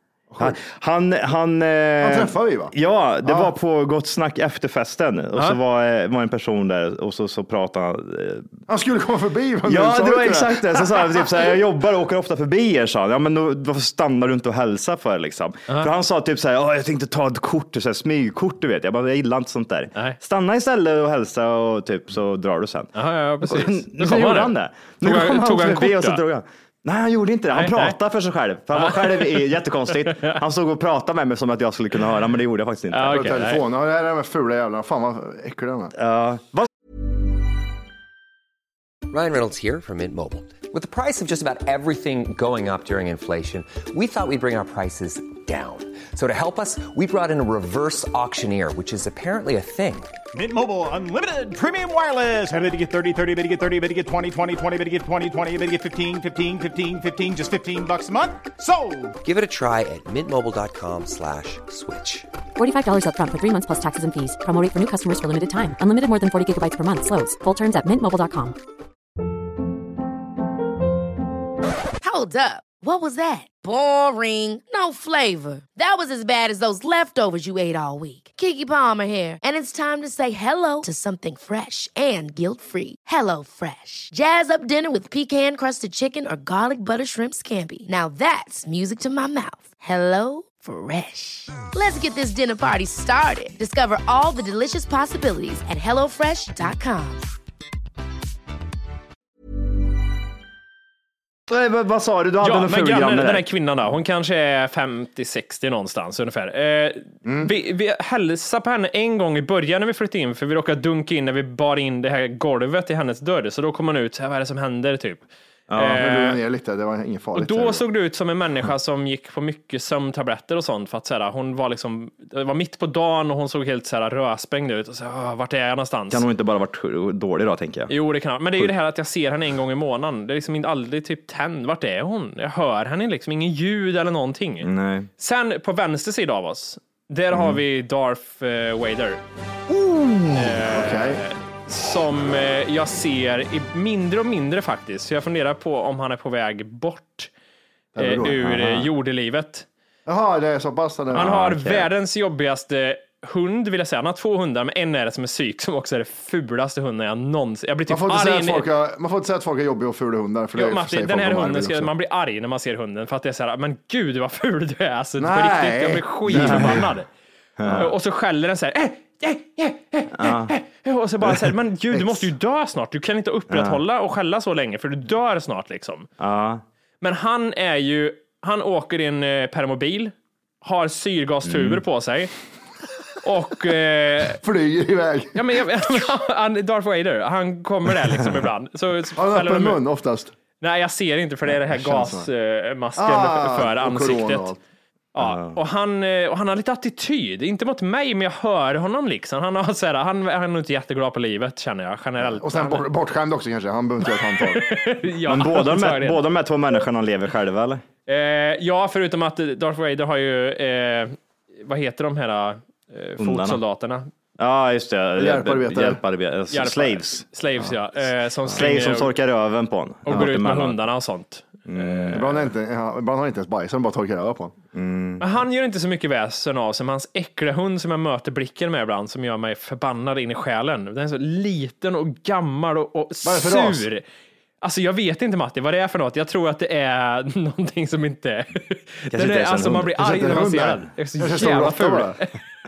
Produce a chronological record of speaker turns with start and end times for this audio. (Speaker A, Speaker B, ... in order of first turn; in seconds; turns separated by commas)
Speaker A: 0.3-0.6, Speaker B: 0.4-8.5, Speaker A: 2.0-3.5, Speaker A: 8.7-11.5, Speaker B: 9.7-33.4, Speaker C: 22.9-26.2, Speaker C: 27.5-28.0, Speaker C: 28.8-29.5, Speaker C: 30.0-30.4, Speaker C: 32.9-33.6, Speaker A: 33.1-35.9, Speaker B: 36.0-36.7, Speaker D: 39.1-50.2, Speaker E: 50.3-59.2, Speaker D: 59.2-62.3, Speaker F: 62.6-68.6, Speaker G: 72.0-97.3, Speaker B: 101.5-103.5, Speaker C: 102.4-115.2, Speaker A: 107.2-107.5, Speaker A: 115.7-117.8, Speaker C: 115.8-116.4, Speaker C: 117.3-126.2, Speaker B: 126.1-127.9, Speaker C: 127.9-139.2, Speaker B: 134.6-135.1, Speaker B: 137.3-137.6, Speaker A: 139.7-141.2, Speaker C: 140.3-147.3, Speaker A: 147.9-148.4, Speaker C: 148.0-149.7, Speaker B: 148.4-148.9, Speaker A: 150.1-151.4, Speaker B: 151.1-151.9, Speaker C: 151.1-158.7, Speaker A: 157.9-161.9, Speaker C: 160.6-167.1, Speaker A: 165.2-166.9, Speaker B: 166.3-166.8, Speaker B: 167.6-167.9, Speaker C: 167.7-176.1, Speaker B: 170.2-170.5, Speaker B: 173.5-173.8, Speaker B: 176.2-176.6, Speaker C: 177.0-182.3, Speaker B: 181.4-181.8, Speaker C: 183.2-184.4, Speaker A: 184.4-185.4, Speaker C: 185.3-189.8, Speaker A: 189.2-190.3, Speaker C: 190.6-194.5, Speaker A: 191.6-192.3, Speaker A: 193.0-194.6, Speaker C: 195.1-202.9, Speaker B: 195.2-195.6, Speaker A: 202.2-204.7, Speaker C: 204.1-206.2, Speaker B: 205.2-207.8, Speaker C: 208.1-214.1, Speaker B: 213.2-213.6, Speaker B: 214.4-217.2, Speaker A: 215.2-216.0, Speaker C: 216.5-219.1, Speaker B: 218.5-220.8, Speaker C: 220.1-222.2, Speaker B: 221.7-222.4, Speaker A: 222.1-224.6, Speaker B: 224.7-225.2, Speaker C: 225.2-234.0, Speaker A: 233.2-233.9, Speaker C: 234.6-242.4, Speaker B: 239.1-240.6, Speaker A: 240.0-242.2